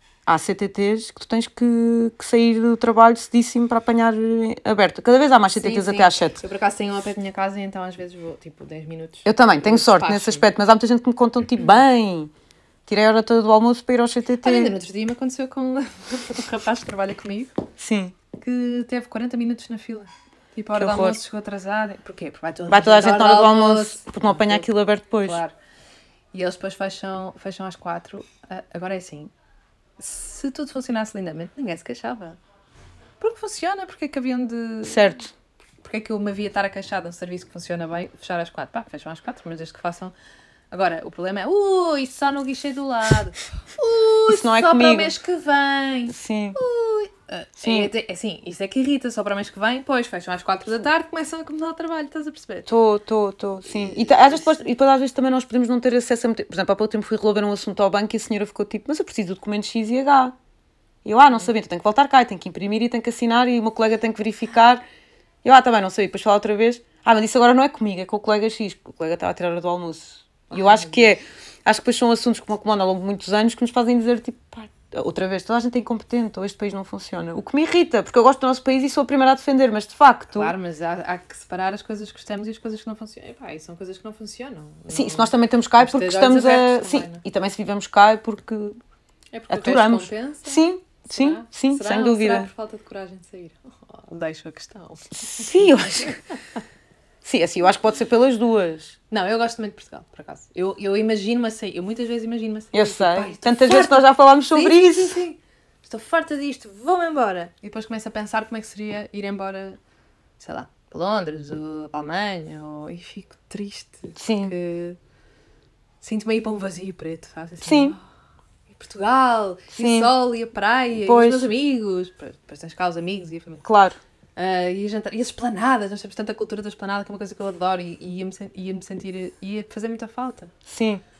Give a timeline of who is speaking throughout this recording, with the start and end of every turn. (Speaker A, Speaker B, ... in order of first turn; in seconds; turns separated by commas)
Speaker A: 0.3-6.4, Speaker B: 5.5-10.5, Speaker A: 9.3-12.3, Speaker A: 12.9-14.7, Speaker B: 14.4-17.6, Speaker A: 17.8-18.2, Speaker B: 18.4-24.7, Speaker A: 20.8-21.2, Speaker A: 22.7-25.4, Speaker B: 25.2-25.6, Speaker B: 26.3-29.3, Speaker B: 30.0-32.4, Speaker B: 33.2-35.2, Speaker A: 34.9-35.3, Speaker B: 35.8-40.1, Speaker B: 40.7-52.7, Speaker A: 44.3-45.1, Speaker A: 46.1-46.6, Speaker A: 47.6-47.9, Speaker A: 52.7-60.4, Speaker B: 53.7-54.5, Speaker A: 61.0-64.8, Speaker A: 65.4-80.5, Speaker B: 70.5-71.2, Speaker B: 80.3-87.2, Speaker A: 84.9-88.8, Speaker B: 89.3-96.2, Speaker A: 89.5-92.5, Speaker A: 95.1-96.2, Speaker A: 97.2-99.0, Speaker B: 99.1-109.8, Speaker A: 102.7-105.2, Speaker B: 110.4-115.0, Speaker A: 114.2-114.5, Speaker B: 116.0-118.0, Speaker A: 117.6-118.0, Speaker B: 118.7-123.7, Speaker A: 119.8-120.1, Speaker A: 121.0-121.5, Speaker A: 123.7-124.0, Speaker B: 124.4-130.5, Speaker A: 130.7-131.0